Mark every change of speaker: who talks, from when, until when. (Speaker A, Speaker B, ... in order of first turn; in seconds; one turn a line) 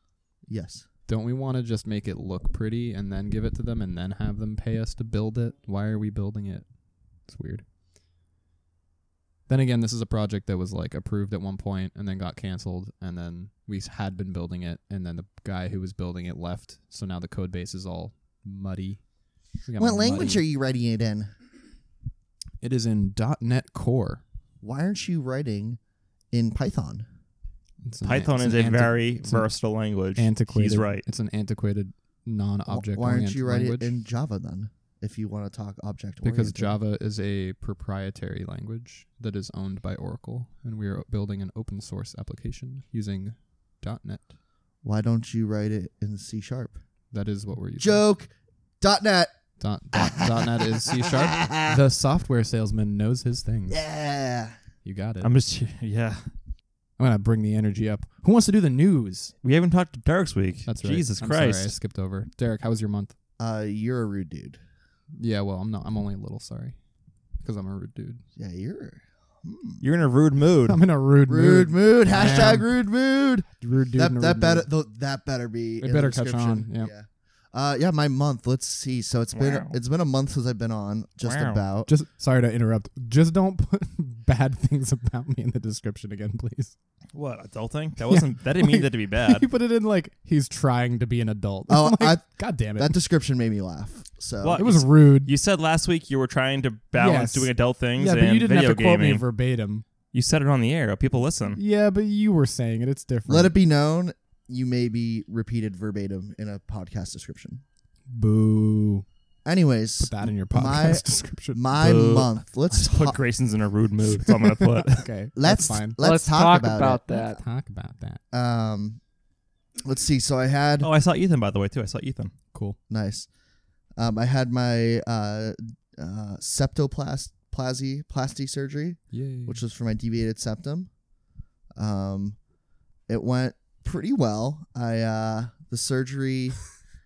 Speaker A: 0.5-0.9
Speaker B: 1.1-6.7
Speaker B: 7.3-7.6
Speaker B: 9.5-19.0
Speaker B: 19.6-20.4
Speaker A: 19.8-21.3
Speaker B: 22.6-24.2
Speaker A: 24.6-25.8
Speaker A: 26.3-27.1
Speaker B: 27.9-29.5
Speaker C: 28.0-31.1
Speaker B: 30.2-33.9
Speaker A: 32.7-36.8
Speaker B: 36.2-44.3
Speaker A: 44.8-46.8
Speaker B: 47.1-48.0
Speaker A: 47.8-49.3
Speaker B: 49.6-53.8
Speaker A: 49.9-51.8
Speaker A: 53.7-54.6
Speaker B: 54.9-55.3
Speaker C: 55.2-56.3
Speaker B: 57.0-59.3
Speaker C: 59.4-61.7
Speaker B: 60.7-63.1
Speaker A: 63.4-64.6
Speaker B: 65.2-66.8
Speaker B: 67.4-68.2
Speaker A: 68.3-69.8
Speaker C: 69.8-70.8
Speaker B: 70.7-72.7
Speaker A: 71.2-81.9
Speaker C: 72.1-72.6
Speaker B: 73.6-74.7
Speaker B: 75.8-76.9
Speaker C: 79.3-79.8
Speaker C: 81.2-81.6
Speaker B: 81.9-86.7
Speaker C: 87.1-89.5
Speaker B: 88.1-93.0
Speaker A: 91.7-94.6
Speaker C: 94.4-99.2
Speaker B: 94.6-95.3
Speaker B: 97.0-99.8
Speaker C: 100.1-101.6
Speaker B: 101.5-103.5
Speaker A: 103.3-107.6
Speaker B: 108.1-109.1
Speaker A: 109.5-113.2
Speaker B: 110.0-111.6
Speaker C: 111.8-115.1
Speaker B: 114.8-118.2
Speaker A: 115.3-117.2
Speaker A: 118.3-119.0
Speaker A: 119.8-120.9
Speaker C: 120.8-122.3
Speaker A: 122.9-123.3
Speaker A: 124.0-130.9
Speaker B: 129.1-129.6
Speaker A: 131.7-132.4
Speaker A: 133.1-136.7